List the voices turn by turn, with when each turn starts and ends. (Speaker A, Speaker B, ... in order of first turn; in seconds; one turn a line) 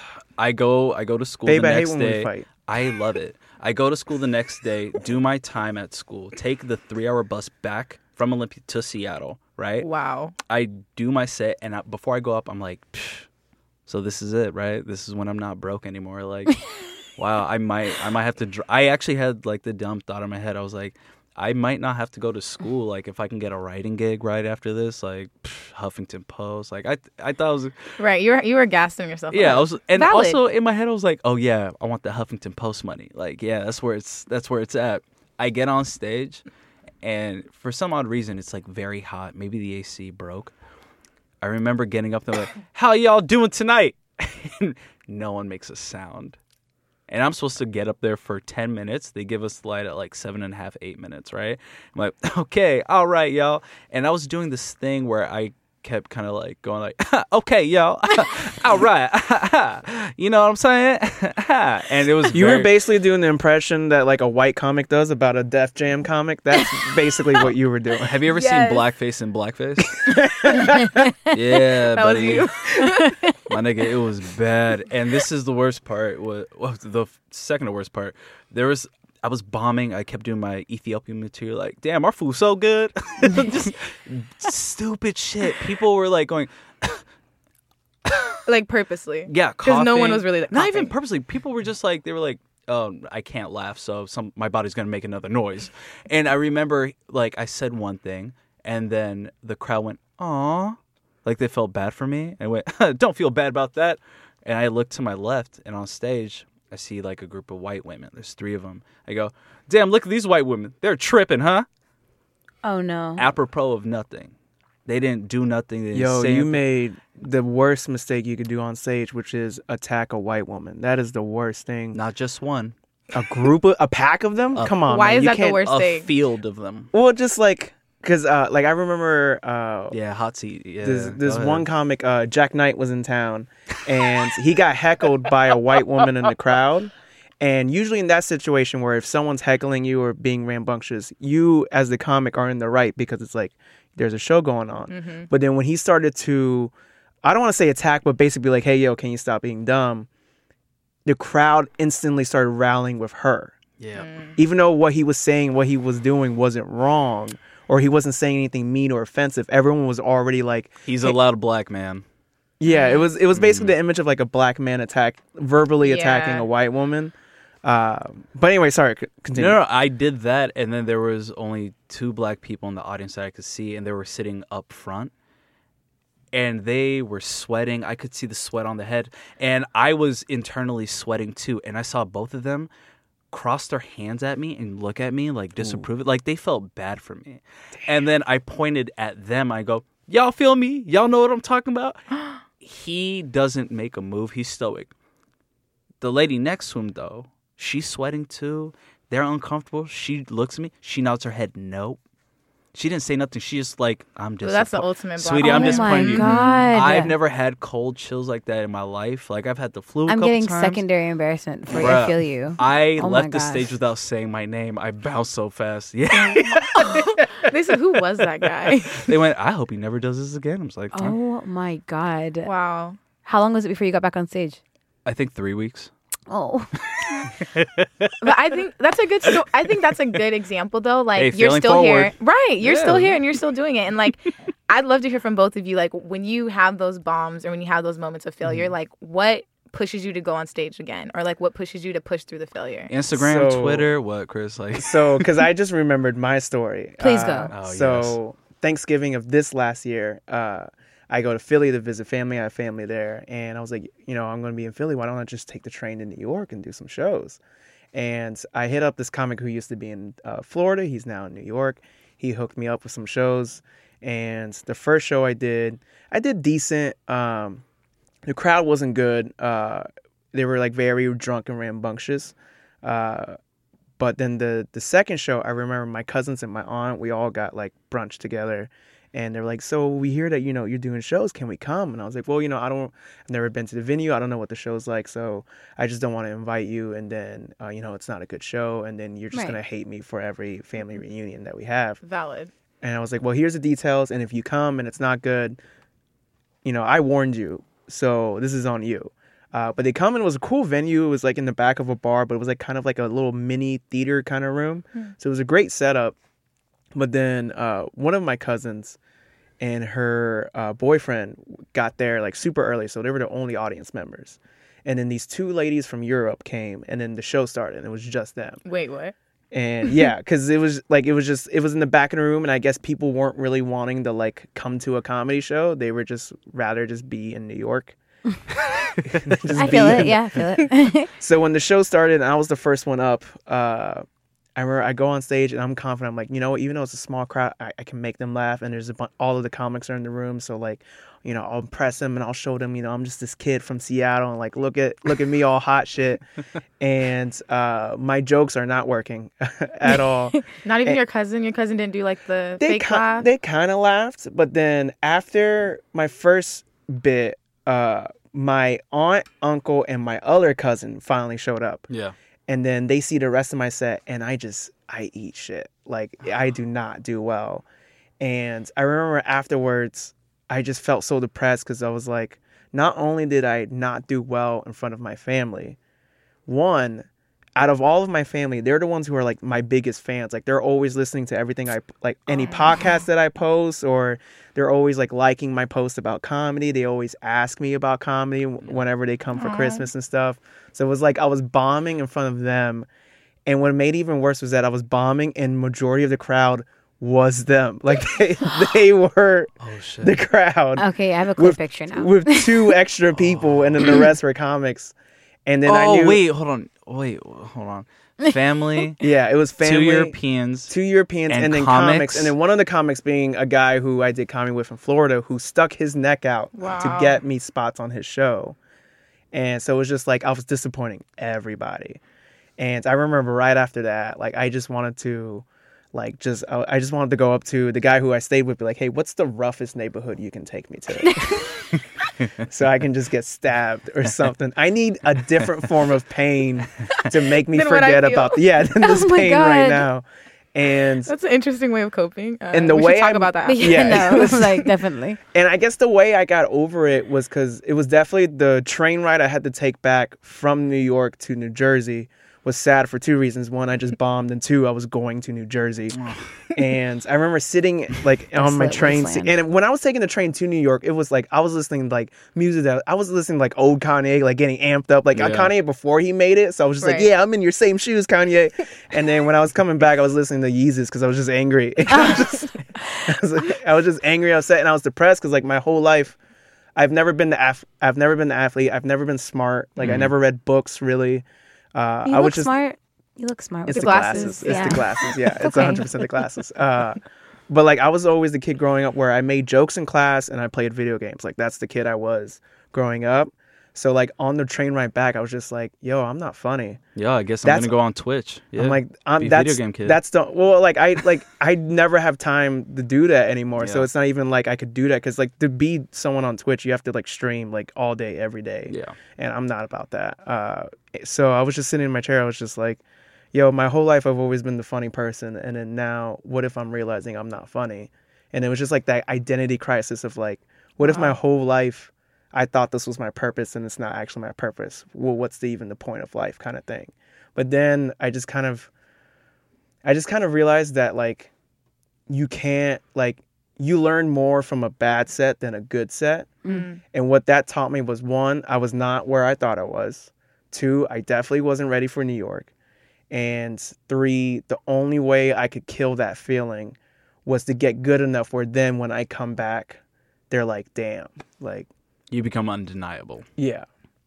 Speaker A: 0.4-9.9
Speaker B: 1.5-2.5
Speaker C: 9.8-10.3
Speaker A: 10.5-13.3
Speaker A: 13.9-16.6
Speaker A: 17.2-28.0
Speaker C: 28.0-30.4
Speaker A: 29.3-36.4
Speaker A: 37.0-40.5
Speaker A: 41.4-46.4
Speaker A: 47.1-62.7
Speaker B: 62.3-68.2
Speaker A: 68.0-70.1
Speaker C: 68.3-68.8
Speaker B: 70.0-71.1
Speaker A: 71.3-72.5
Speaker C: 71.9-73.4
Speaker A: 73.5-87.0
Speaker A: 88.0-88.4
Speaker C: 88.5-90.9
Speaker A: 89.3-111.7
Speaker D: 112.6-113.3
Speaker A: 113.2-114.3
Speaker A: 114.9-116.6
Speaker B: 115.9-122.0
Speaker A: 121.9-122.8
Speaker B: 123.1-125.7
Speaker A: 124.5-124.9
Speaker C: 124.9-126.1
Speaker A: 125.4-126.9
Speaker B: 126.9-130.0
Speaker A: 129.9-131.7
Speaker B: 130.8-146.7
Speaker C: 144.9-145.3
Speaker B: 147.2-150.1
Speaker B: 151.1-153.6
Speaker A: 153.8-154.1
Speaker C: 154.0-154.4
Speaker B: 154.4-161.2
Speaker A: 160.9-162.0
Speaker B: 162.6-169.6
Speaker C: 162.7-163.1
Speaker A: 163.3-163.7
Speaker C: 165.8-166.5
Speaker A: 169.3-175.1
Speaker A: 176.3-182.7
Speaker A: 183.3-192.0
Speaker A: 192.6-194.9
Speaker A: 196.0-202.0
Speaker A: 202.7-210.8
Speaker C: 204.4-206.6
Speaker D: 205.4-207.1
Speaker D: 210.1-213.7
Speaker A: 211.7-217.3
Speaker C: 216.3-219.1
Speaker A: 218.7-221.2
Speaker D: 220.9-222.5
Speaker C: 222.4-223.0
Speaker D: 223.2-224.6
Speaker A: 225.1-225.9
Speaker D: 226.3-227.3
Speaker A: 227.3-228.3
Speaker C: 228.2-242.9
Speaker A: 231.2-233.2
Speaker A: 242.9-245.3
Speaker B: 243.1-243.9
Speaker B: 244.8-257.4
Speaker D: 247.0-247.5
Speaker A: 247.5-248.2
Speaker B: 257.9-267.6
Speaker B: 268.3-273.4
Speaker B: 274.0-292.0
Speaker D: 289.3-289.6
Speaker C: 292.0-292.5
Speaker B: 292.8-295.6
Speaker B: 296.6-306.1
Speaker B: 306.9-309.0
Speaker B: 309.6-318.6
Speaker C: 318.6-319.1
Speaker B: 319.5-328.0
Speaker B: 329.1-330.4
Speaker A: 329.3-329.9
Speaker D: 329.5-331.1
Speaker B: 331.2-346.2
Speaker B: 346.8-351.0
Speaker C: 350.6-353.3
Speaker B: 352.6-361.9
Speaker B: 362.5-367.6
Speaker B: 368.2-375.8
Speaker B: 376.5-392.9
Speaker C: 382.3-382.9
Speaker C: 389.4-389.9
Speaker B: 393.5-404.9
Speaker A: 399.6-400.2
Speaker D: 400.8-402.7
Speaker A: 403.2-404.0
Speaker B: 405.5-406.2
Speaker A: 405.7-409.0
Speaker B: 409.0-410.1
Speaker A: 409.6-410.7
Speaker B: 410.7-418.6
Speaker A: 411.3-412.3
Speaker C: 416.6-417.2
Speaker B: 419.3-422.0
Speaker B: 422.6-431.7
Speaker D: 431.0-431.6
Speaker B: 432.4-441.1
Speaker C: 437.5-438.4
Speaker D: 438.8-439.9
Speaker C: 441.1-444.7
Speaker B: 442.5-444.7
Speaker D: 443.4-445.2
Speaker B: 445.3-456.0
Speaker B: 456.5-476.2
Speaker D: 458.3-459.3
Speaker A: 465.1-465.5
Speaker C: 466.8-467.1
Speaker D: 472.0-472.2
Speaker B: 476.8-482.5
Speaker A: 479.8-480.1
Speaker D: 482.1-485.9
Speaker B: 483.7-496.8
Speaker C: 483.7-484.9
Speaker A: 497.0-500.0
Speaker B: 497.4-497.8
Speaker B: 498.6-512.8
Speaker A: 503.6-503.9
Speaker A: 508.7-509.0
Speaker B: 513.3-528.7
Speaker C: 520.8-521.1
Speaker B: 529.8-531.3
Speaker B: 532.1-542.5
Speaker C: 536.5-536.8
Speaker B: 543.1-551.7
Speaker A: 552.1-553.3
Speaker B: 553.4-553.7